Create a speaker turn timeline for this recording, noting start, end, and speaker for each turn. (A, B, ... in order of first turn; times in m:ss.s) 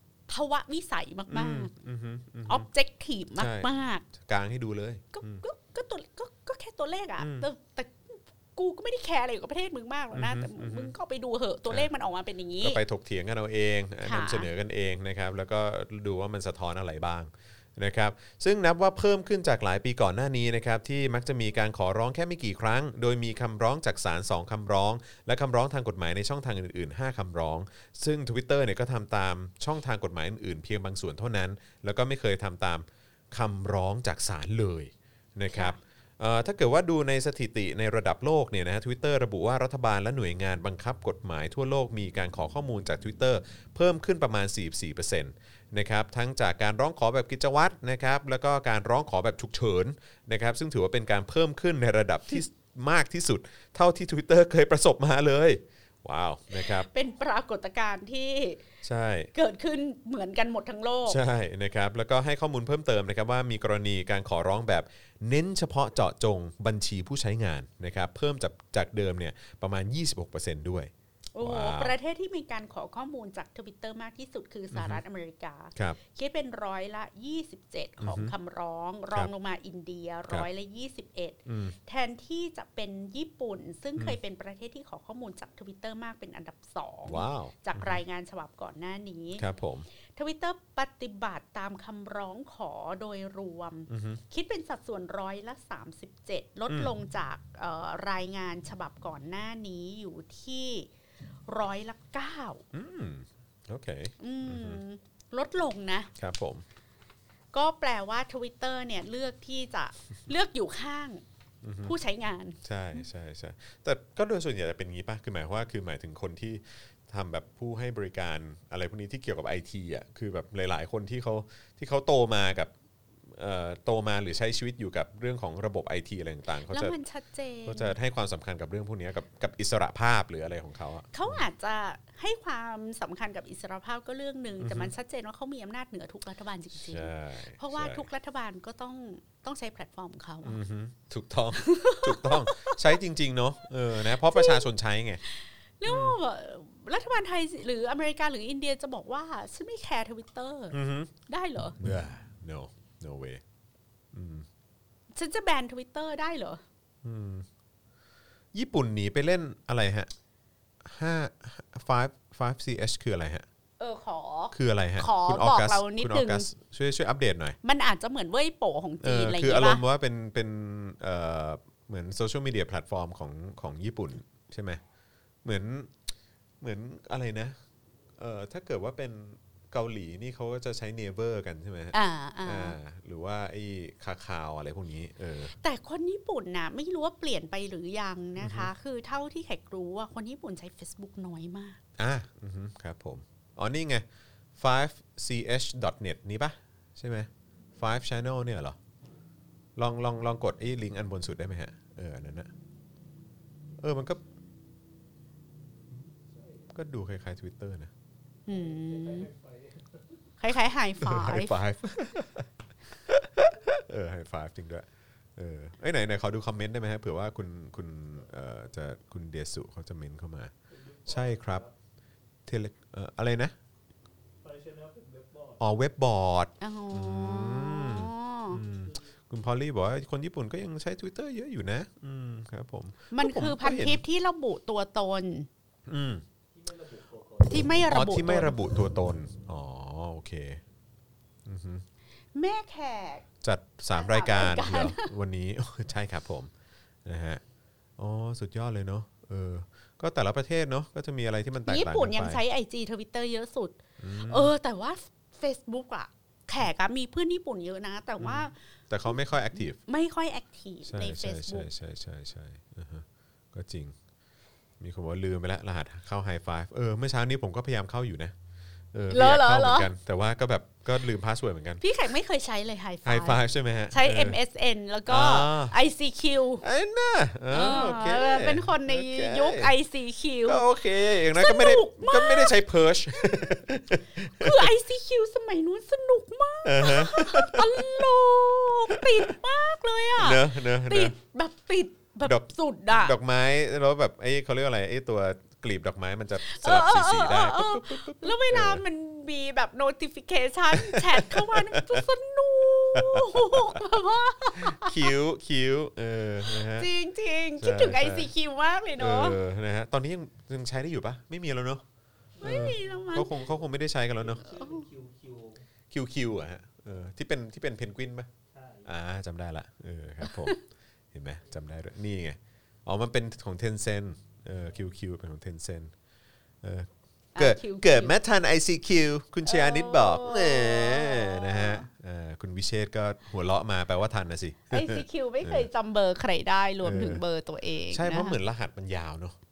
0:00.3-0:01.7 A
0:01.3-0:02.6 B
0:02.5-0:04.1 A
0:03.4-0:05.4 B
0:05.1-0:12.8 A
0:07.2-0:07.4 B
0:10.1-0:10.9 B
0:12.6-0:56.9 B
0:14.0-0:14.5 A
0:35.5-0:35.8 A
0:56.5-0:58.6 A
0:58.8-0:59.3 B
0:59.3-1:01.2 A
1:01.1-1:12.0 B
1:11.3-1:29.4 A
1:14.7-1:15.0 B
1:18.0-1:18.3 B
1:21.5-1:21.7 B
1:27.1-1:28.0 B
1:29.4-1:29.9 B
1:30.2-1:40.9 A
1:33.9-1:34.2 B
1:41.5-1:42.6 A
1:42.7-1:44.8 B
1:44.2-1:46.1 A
1:46.2-1:46.6 B
1:47.5-1:51.2 A
1:51.6-1:51.9 B
1:51.8-1:52.6 A
1:52.6-2:02.7 B
2:03.3-2:07.0 B
2:06.7-2:07.9 A
2:07.6-2:11.4 B
2:11.1-2:20.6 A
2:14.6-2:14.9 B
2:16.7-2:18.0 B
2:20.4-2:25.2 B
2:21.5-2:23.0 A
2:23.9-2:24.7 A
2:25.2-2:31.8 A
2:25.9-2:26.2 B
2:30.7-2:31.1 B
2:31.8-2:33.4 B
2:34.1-2:34.5 B
2:35.1-2:36.6 A
2:37.0-2:37.4 B
2:38.5-2:40.1 B
2:40.8-2:43.4 B
2:43.8-2:46.5 A
2:44.5-2:47.6 B
2:47.6-2:49.8 A
2:49.0-2:54.8 B
2:55.4-2:55.9 B
2:56.6-2:57.6 B
2:58.2-3:05.5 B
3:01.9-3:02.8 A
3:05.6-3:11.8 A
3:08.4-3:08.7 B
3:12.0-3:14.0 B
3:14.6-3:18.8 B
3:19.8-3:22.5 B
3:23.8-3:24.2 B
3:26.4-3:26.6 C
3:26.7-3:27.9 B
3:28.5-3:29.3 A
3:28.5-3:30.0 C
3:30.4-3:31.6 A
3:31.0-3:32.5 B
3:33.0-3:40.5 B
3:40.7-3:41.7 C
3:41.1-3:41.6 B
3:42.5-3:43.5 B
3:44.4-3:45.6 C
3:45.6-3:54.0 B
3:46.6-3:48.6 A
3:53.1-3:55.5 A
3:55.9-3:56.2 B
3:56.5-3:57.8 C
3:57.4-3:58.6 A
3:57.9-4:00.6 B
4:01.4-4:01.8 B
4:02.3-4:03.2 A
4:03.4-4:06.5 B
4:03.9-4:05.1 A
4:07.0-4:07.4 B
4:08.0-4:12.4 B
4:11.6-4:18.6 A
4:14.0-4:14.5 B
4:18.2-4:19.8 B
4:19.8-4:21.7 A
4:20.8-4:23.9 B
4:24.8-4:28.3 B
4:28.9-4:31.8 B
4:29.1-4:29.9 A
4:31.8-4:36.6 A
4:33.0-4:34.4 B
4:35.1-4:35.7 B
4:36.6-4:39.7 B
4:37.5-4:40.6 A
4:40.4-4:44.7 B
4:41.3-4:42.6 A
4:43.1-4:43.5 A
4:44.3-4:53.1 A
4:46.6-4:48.1 B
4:48.9-4:49.2 B
4:50.2-4:51.1 B
4:52.2-4:58.8 B
4:56.4-5:05.1 A
5:00.7-5:02.0 B
5:02.9-5:03.8 B
5:04.6-5:06.9 B
5:06.5-5:09.4 A
5:07.6-5:08.3 B
5:09.0-5:11.8 B
5:12.4-5:13.2 C
5:12.4-5:13.3 A
5:12.4-5:14.5 B
5:14.2-5:15.6 C
5:15.9-5:18.3 B
5:18.5-5:18.9 C
5:18.8-5:20.6 B
5:20.2-5:20.6 A
5:21.1-5:25.9 B
5:26.6-5:35.7 B
5:27.3-5:28.1 A
5:29.4-5:31.8 A
5:34.7-5:38.4 A
5:36.8-5:37.2 B
5:37.9-5:39.4 B